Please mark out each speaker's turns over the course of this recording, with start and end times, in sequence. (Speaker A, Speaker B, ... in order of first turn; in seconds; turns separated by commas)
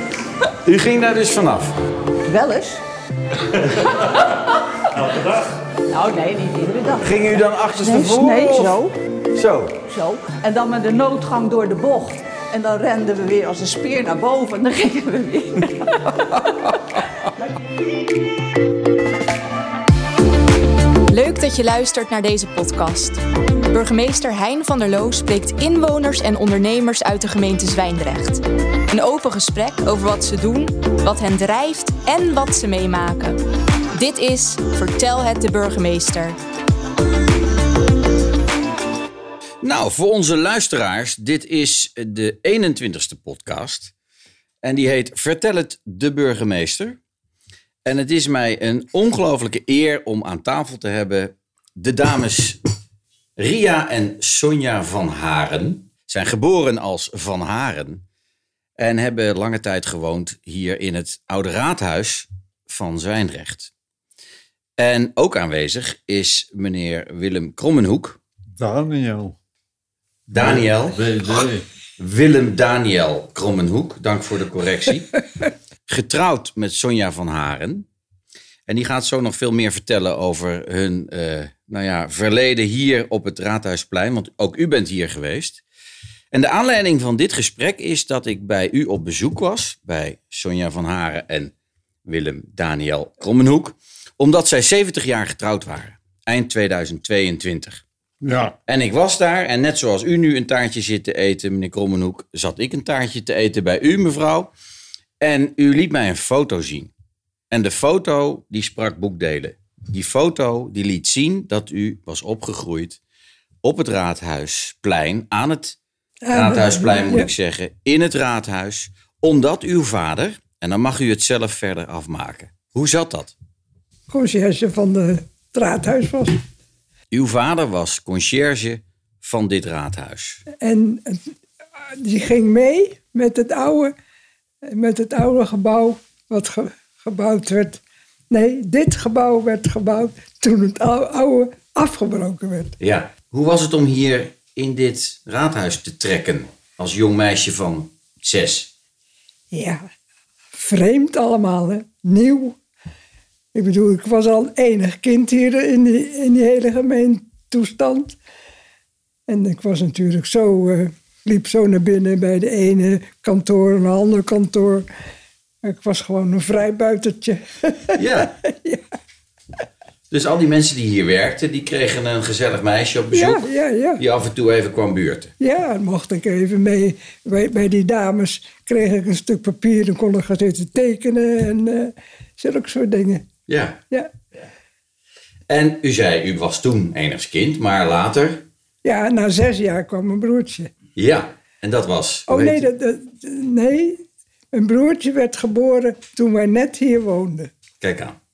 Speaker A: 0.6-1.8, Speaker B: 2.2-2.8, Speaker A: 5.0-5.4, Speaker B: 5.9-8.9, Speaker A: 7.0-8.8, Speaker A: 9.3-9.8, Speaker B: 9.9-16.6, Speaker C: 21.1-33.4, Speaker C: 33.9-36.4, Speaker A: 39.6-43.9, Speaker A: 44.6-47.0, Speaker A: 47.8-52.6, Speaker A: 53.4-58.0, Speaker A: 58.8-63.7, Speaker A: 64.8-68.2, Speaker D: 68.5-69.4, Speaker D: 70.3-71.7, Speaker A: 70.3-71.0, Speaker A: 72.0-75.2, Speaker A: 75.9-77.8, Speaker A: 78.7-85.6, Speaker A: 86.3-91.5, Speaker A: 92.0-97.8, Speaker D: 98.2-98.6, Speaker A: 98.7-104.5, Speaker A: 105.2-106.9, Speaker A: 107.5-113.0, Speaker A: 113.6-115.8, Speaker E: 116.2-117.3, Speaker A: 116.3-123.3, Speaker E: 124.1-126.4, Speaker A: 127.1-130.4, Speaker E: 130.6-131.3, Speaker E: 132.0-133.9, Speaker E: 134.7-142.7, Speaker A: 142.8-148.7, Speaker E: 149.5-149.8, Speaker E: 150.5-152.6, Speaker E: 153.5-158.2, Speaker E: 159.3-164.8, Speaker E: 165.6-168.8, Speaker A: 167.9-168.3, Speaker A: 170.1-175.3, Speaker E: 173.1-174.0, Speaker E: 175.4-183.2, Speaker A: 183.5-183.8, Speaker A: 185.5-188.4, Speaker E: 188.8-190.7, Speaker A: 190.9-192.7, Speaker E: 192.3-194.0, Speaker E: 194.5-197.5, Speaker A: 197.8-198.2